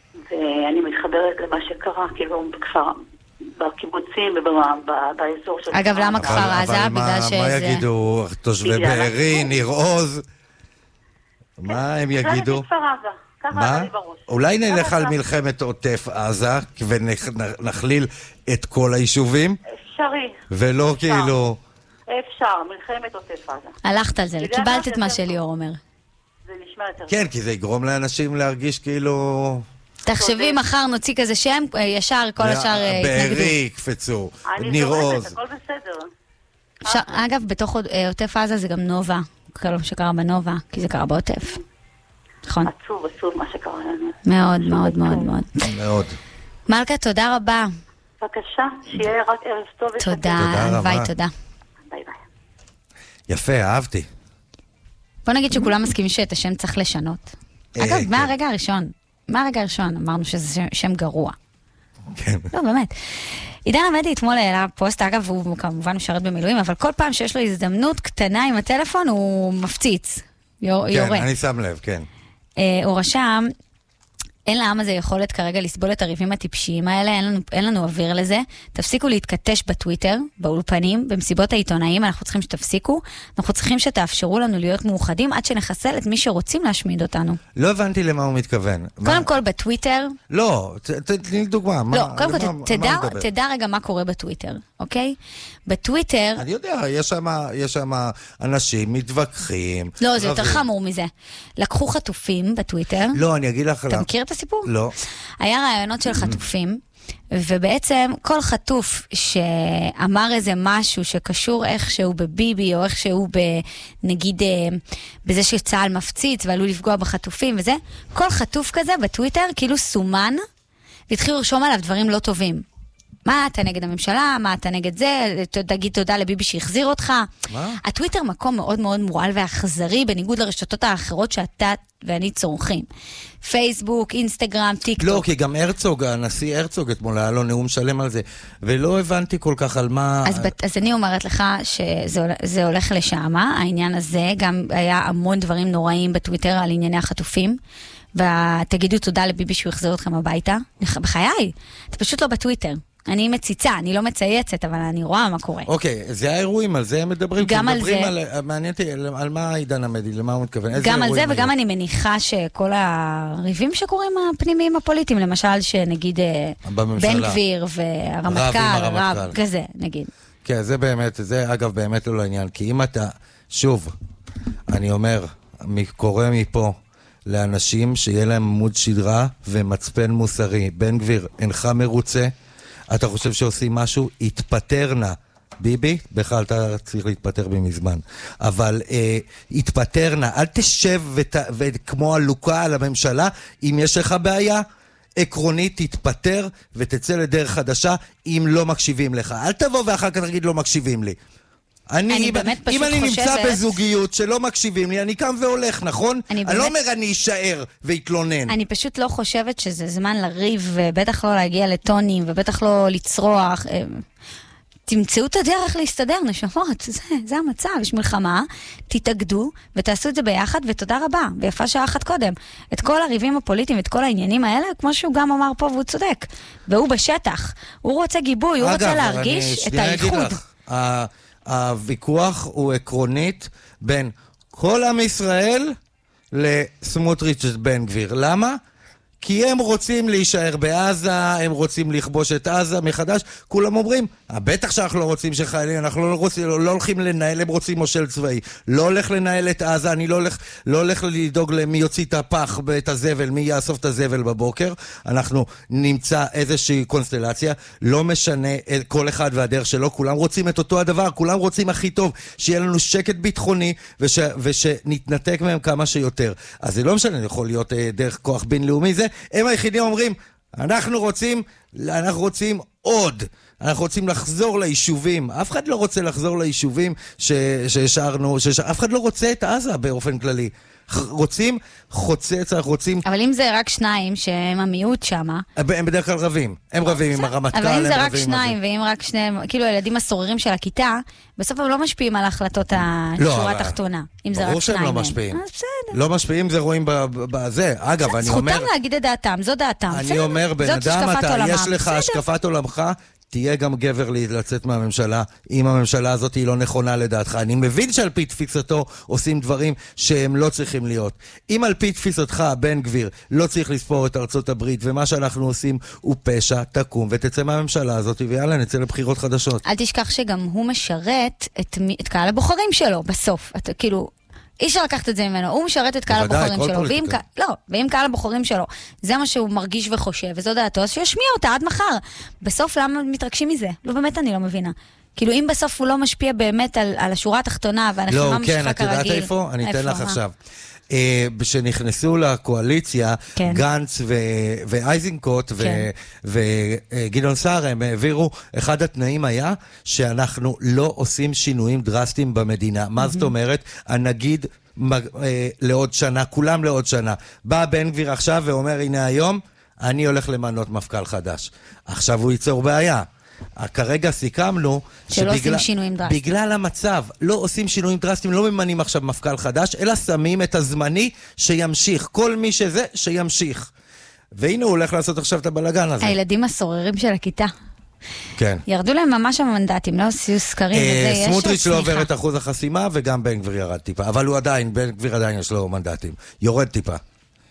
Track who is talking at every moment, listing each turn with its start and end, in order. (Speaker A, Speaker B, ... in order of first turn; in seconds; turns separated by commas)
Speaker A: 0.2-3.0, Speaker A: 3.5-6.6, Speaker B: 5.7-7.8, Speaker C: 6.2-10.2, Speaker A: 8.6-9.6, Speaker C: 11.6-12.7, Speaker A: 11.7-15.2, Speaker C: 13.5-19.6, Speaker A: 19.7-20.4, Speaker C: 20.5-21.6, Speaker A: 20.9-21.4, Speaker A: 22.1-23.8, Speaker B: 23.8-25.8, Speaker A: 24.4-25.4, Speaker A: 26.4-27.2, Speaker C: 27.1-29.6, Speaker B: 30.0-33.5, Speaker A: 30.1-30.6, Speaker C: 32.4-35.4, Speaker A: 34.5-36.1, Speaker A: 36.8-37.2, Speaker B: 36.8-41.6, Speaker B: 42.5-42.7, Speaker A: 42.6-45.3, Speaker B: 44.2-45.7, Speaker C: 45.6-46.2, Speaker B: 46.7-47.7, Speaker A: 48.2-50.6, Speaker B: 50.0-51.3, Speaker C: 50.4-51.1, Speaker A: 51.8-52.2, Speaker C: 53.3-54.1, Speaker B: 55.2-61.4, Speaker C: 57.8-58.3, Speaker C: 62.1-62.5, Speaker B: 62.5-62.9, Speaker B: 63.6-71.3, Speaker C: 70.9-72.1, Speaker B: 72.6-73.5, Speaker B: 74.5-87.4, Speaker C: 87.5-89.3, Speaker B: 89.0-90.2, Speaker C: 90.3-93.3, Speaker B: 91.9-96.4, Speaker C: 96.4-100.6, Speaker B: 100.0-103.2, Speaker C: 103.1-104.1, Speaker B: 103.9-104.7, Speaker C: 104.6-104.9, Speaker B: 105.4-106.8, Speaker C: 106.1-106.4, Speaker B: 107.3-120.4, Speaker B: 121.1-122.6, Speaker B: 123.2-127.3, Speaker C: 127.5-127.8, Speaker B: 127.8-132.9, Speaker B: 133.4-135.2, Speaker C: 135.0-140.5, Speaker B: 140.2-147.6, Speaker B: 148.1-155.7, Speaker C: 155.7-161.5, Speaker B: 157.4-158.1, Speaker B: 160.7-170.1, Speaker C: 166.6-167.4, Speaker C: 168.3-169.3, Speaker C: 170.4-173.9, Speaker C: 174.7-182.3, Speaker C: 182.9-194.6, Speaker C: 195.2-201.2, Speaker C: 201.9-208.6, Speaker B: 202.1-203.8, Speaker B: 206.3-206.7, Speaker B: 208.5-214.0, Speaker B: 214.9-230.4, Speaker C: 228.6-235.8, Speaker C: 236.3-238.6, Speaker C: 239.2-283.0, Speaker B: 283.0-285.4, Speaker C: 285.6-288.6, Speaker B: 286.9-296.0, Speaker C: 293.2-293.8, Speaker C: 294.3-295.4, Speaker C: 295.9-298.7, Speaker B: 298.0-302.2, Speaker C: 299.9-319.6, Speaker B: 319.6-340.2, Speaker C: 326.1-327.2, Speaker C: 338.1-340.3, Speaker C: 340.9-363.1, Speaker B: 343.3-343.6, Speaker B: 345.6-345.9, Speaker B: 353.0-353.3, Speaker C: 363.6-373.7, Speaker B: 365.1-366.2, Speaker C: 374.3-376.1, Speaker B: 376.0-377.5, Speaker C: 378.4-378.6, Speaker B: 378.6-382.1, Speaker C: 380.7-387.0